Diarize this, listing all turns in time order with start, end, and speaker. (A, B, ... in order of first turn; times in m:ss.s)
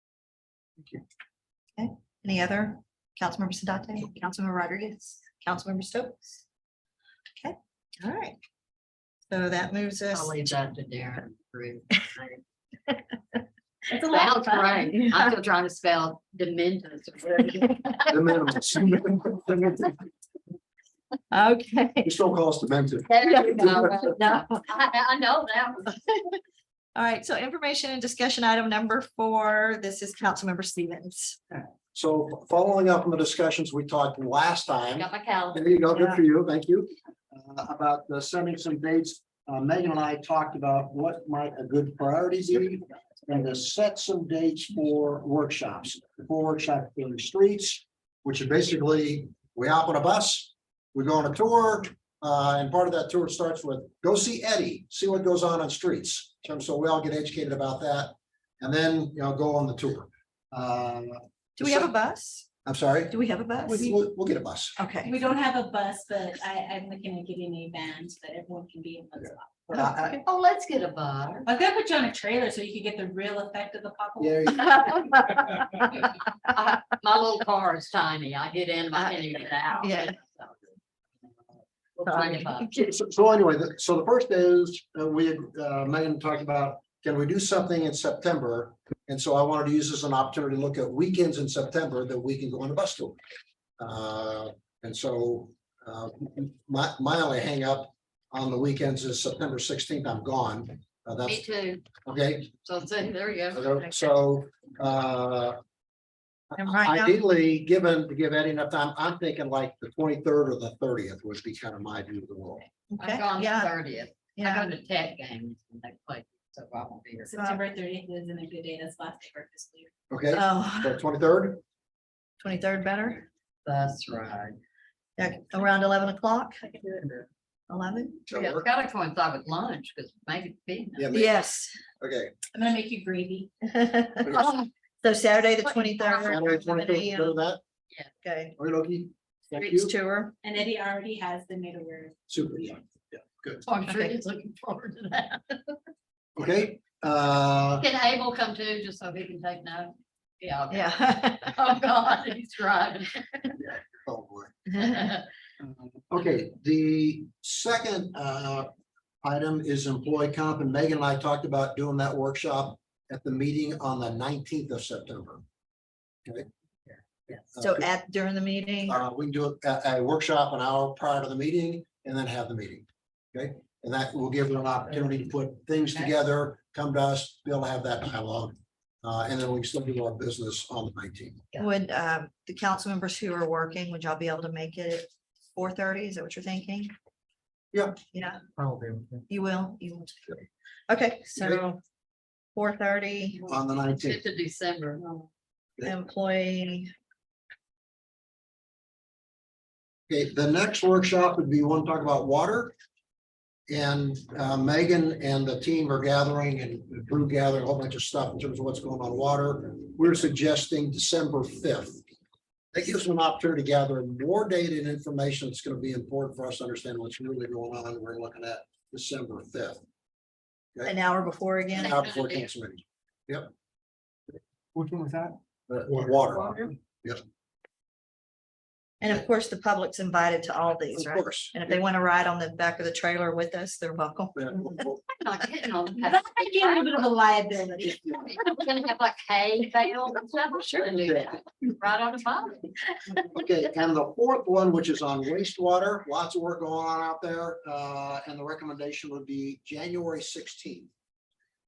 0:01.8-0:06.4 A
0:07.4-0:08.4 A
0:09.3-0:10.4 A
0:10.1-0:12.4 B
0:13.9-0:14.3 A
0:14.0-0:18.4 B
0:18.1-0:19.9 C
0:21.3-0:22.1 A
0:22.0-0:24.0 C
0:23.1-0:25.9 B
0:23.3-0:24.5 A
0:27.0-0:31.4 A
0:31.9-1:01.9 C
0:35.0-0:35.7 B
0:35.9-0:36.2 A
1:01.6-1:02.4 A
1:02.7-1:04.8 C
1:03.1-1:03.9 A
1:04.8-1:05.1 A
1:05.0-1:09.6 D
1:09.7-1:10.1 C
1:09.7-1:10.2 A
1:10.0-1:11.5 B
1:11.5-1:15.0 D
1:14.2-1:14.8 C
1:16.0-1:20.6 B
1:19.8-1:20.2 A
1:22.0-1:22.8 B
1:22.1-1:22.7 A
1:22.7-1:33.2 C
1:33.8-1:41.4 C
1:41.2-1:41.9 B
1:42.0-1:42.5 C
1:42.6-1:44.0 B
1:43.5-1:45.6 C
1:46.5-1:52.7 C
1:46.6-1:47.2 A
1:52.9-1:53.7 A
1:53.0-1:57.3 B
1:54.4-1:54.7 A
1:57.3-1:59.9 D
2:00.1-2:01.6 C
2:00.3-2:01.0 A
2:02.4-2:03.3 A
2:03.6-2:04.6 B
2:05.2-2:06.8 A
2:07.7-2:08.2 A
2:08.3-2:08.7 C
2:08.3-2:11.1 B
2:11.0-2:11.4 C
2:11.1-2:11.8 A
2:12.0-2:12.3 C
2:12.5-2:13.5 D
2:13.7-2:14.5 A
2:14.2-2:14.6 C
2:14.3-2:14.7 B
2:15.0-2:17.4 A
2:16.1-2:17.6 C
2:18.2-2:18.6 A
2:18.6-2:19.9 C
2:19.5-2:20.3 A
2:20.4-2:22.1 D
2:22.3-2:23.6 C
2:23.6-2:25.8 B
2:26.4-2:27.8 C
2:27.8-2:33.4 B
2:30.7-2:31.6 A
2:33.6-2:34.6 C
2:34.8-2:35.1 A
2:34.8-2:35.2 B
2:35.6-2:38.7 C
2:39.2-2:45.4 C
2:46.9-2:47.4 B
2:47.5-2:47.8 C
2:47.6-2:49.0 A
2:48.9-3:01.4 C
3:01.6-3:06.9 A
3:07.7-3:08.0 C
3:08.1-3:08.4 A
3:08.6-3:09.2 C
3:09.3-3:11.8 A
3:12.5-3:13.5 A
3:13.4-3:14.2 C
3:13.9-3:15.0 B
3:15.8-3:16.9 A
3:20.1-3:22.8 C
3:23.7-3:32.0 C
3:32.7-3:39.8 C
3:40.8-3:42.0 A
3:41.8-3:42.5 B
3:41.8-3:43.5 C
3:44.8-3:46.7 E
3:45.7-3:47.2 C
3:49.0-3:54.8 A
3:50.9-3:51.8 C
3:54.4-3:55.0 C
3:55.1-3:56.9 B
3:56.0-3:58.2 D
3:58.0-4:02.8 B
4:01.1-4:01.3 C
4:03.3-4:10.9 C